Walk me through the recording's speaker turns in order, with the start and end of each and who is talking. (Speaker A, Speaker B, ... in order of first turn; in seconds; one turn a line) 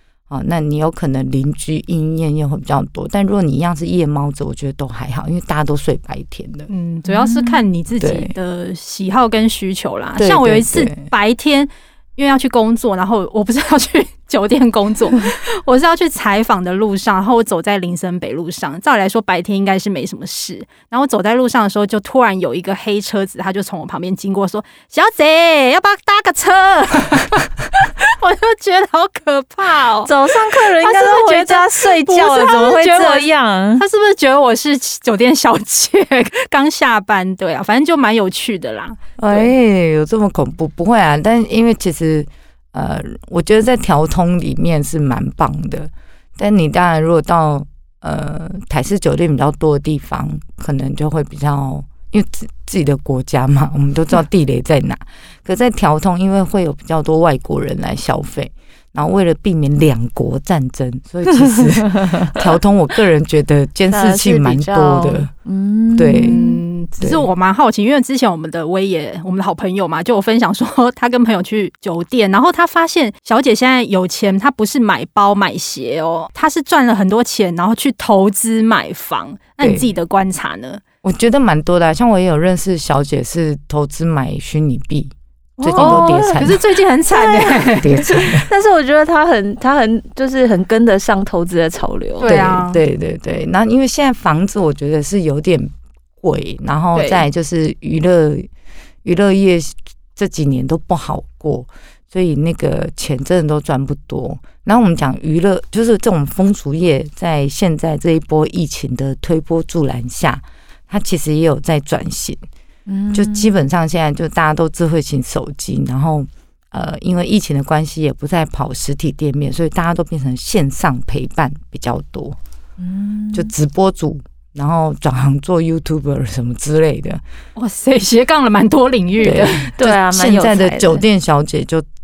Speaker A: 0.3-6.7
Speaker B: 6.7-39.5
Speaker C: 7.1-7.6
Speaker A: 8.0-8.3
Speaker A: 10.2-11.1
Speaker C: 30.0-33.8
Speaker A: 39.2-65.3
Speaker C: 63.9-66.6
Speaker A: 66.0-66.4
Speaker B: 66.1-80.8
Speaker A: 67.0-67.3
Speaker A: 79.6-79.9
Speaker A: 81.0-86.6
Speaker B: 85.6-88.0
Speaker C: 85.7-86.5
Speaker C: 87.1-92.3
Speaker A: 87.8-88.5
Speaker B: 92.2-92.8
Speaker A: 92.2-98.5
Speaker C: 96.9-97.2
Speaker A: 99.0-112.5
Speaker C: 112.9-113.5
Speaker A: 113.1-122.4
Speaker C: 122.8-123.5
Speaker A: 123.3-127.2
Speaker B: 127.6-129.7
Speaker A: 129.2-131.9
Speaker C: 129.8-131.0